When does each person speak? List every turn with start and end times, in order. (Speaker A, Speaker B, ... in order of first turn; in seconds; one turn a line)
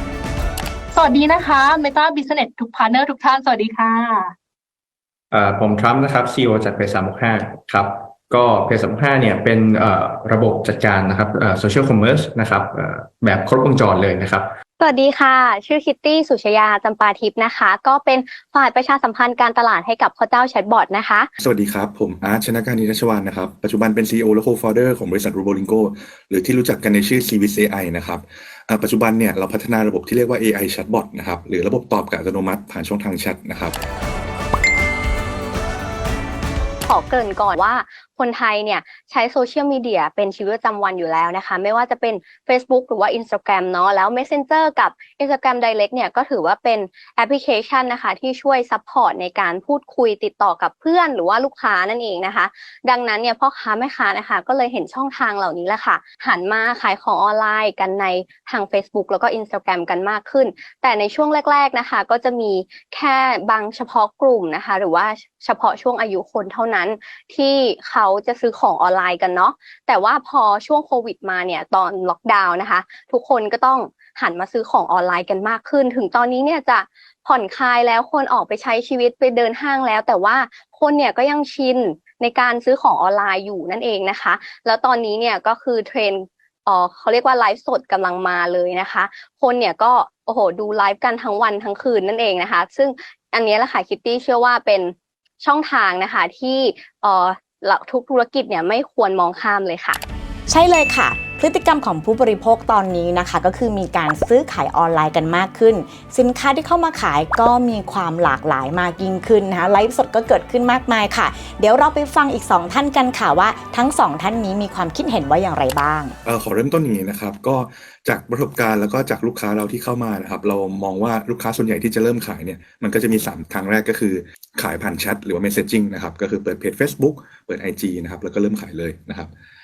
Speaker A: 0.9-4.3
Speaker B: 5.3-14.5
Speaker C: 14.8-21.3
Speaker D: 21.4-33.8
Speaker C: 36.9-100.0
Speaker E: 100.5-116.2
Speaker D: 116.2-129.3